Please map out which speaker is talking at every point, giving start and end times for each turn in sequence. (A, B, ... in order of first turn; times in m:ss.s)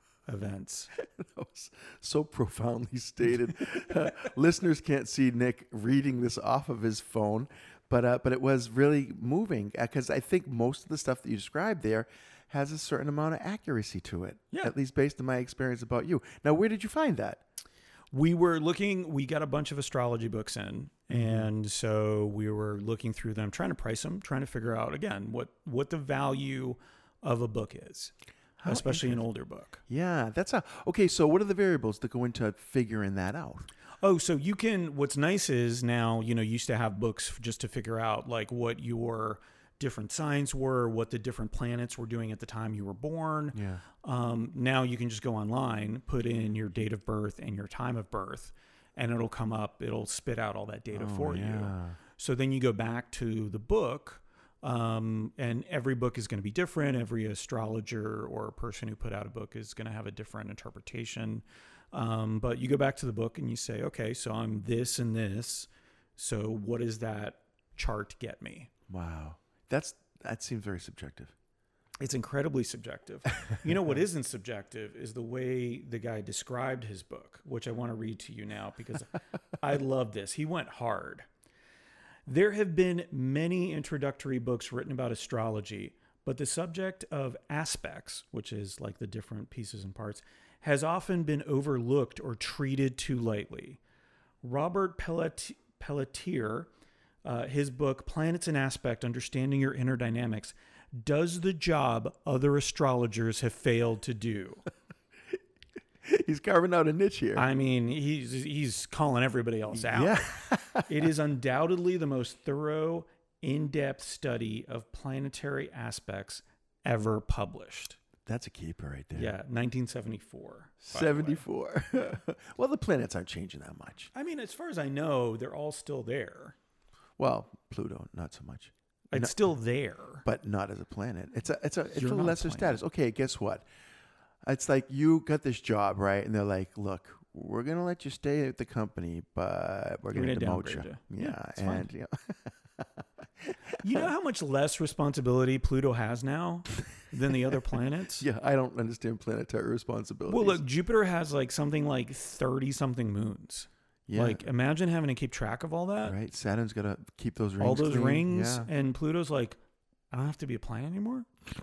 0:00.3-0:00.9 A
0:00.9-0:17.4 B
0:18.1-0:29.8 A
0:21.1-0:21.5 B
0:28.6-0:29.2 B
0:29.9-0:33.7 B
0:34.0-1:08.7 A
0:43.5-0:43.8 B
0:50.9-0:52.0 B
1:08.9-1:11.3 B
1:12.0-1:21.2 A
1:22.3-1:33.8 A
1:34.4-1:36.7 A
1:37.2-1:44.6 A
1:46.0-1:47.5 B
1:47.4-1:50.2 A
1:49.7-1:50.9 B
1:50.9-1:58.0 A
1:58.2-1:59.3 B
1:59.1-2:01.4 A
2:00.8-2:04.1 B
2:04.1-2:06.5 A
2:07.2-2:09.4 B
2:09.1-2:10.2 A
2:10.2-2:13.6 B
2:11.9-2:12.8 A
2:14.4-2:22.9 B
2:20.1-2:21.9 A
2:23.8-2:28.2 A
2:28.2-2:30.6 B
2:30.3-2:36.2 A
2:34.1-2:34.4 B
2:36.0-2:38.7 B
2:37.6-2:39.6 A
2:40.1-2:41.3 A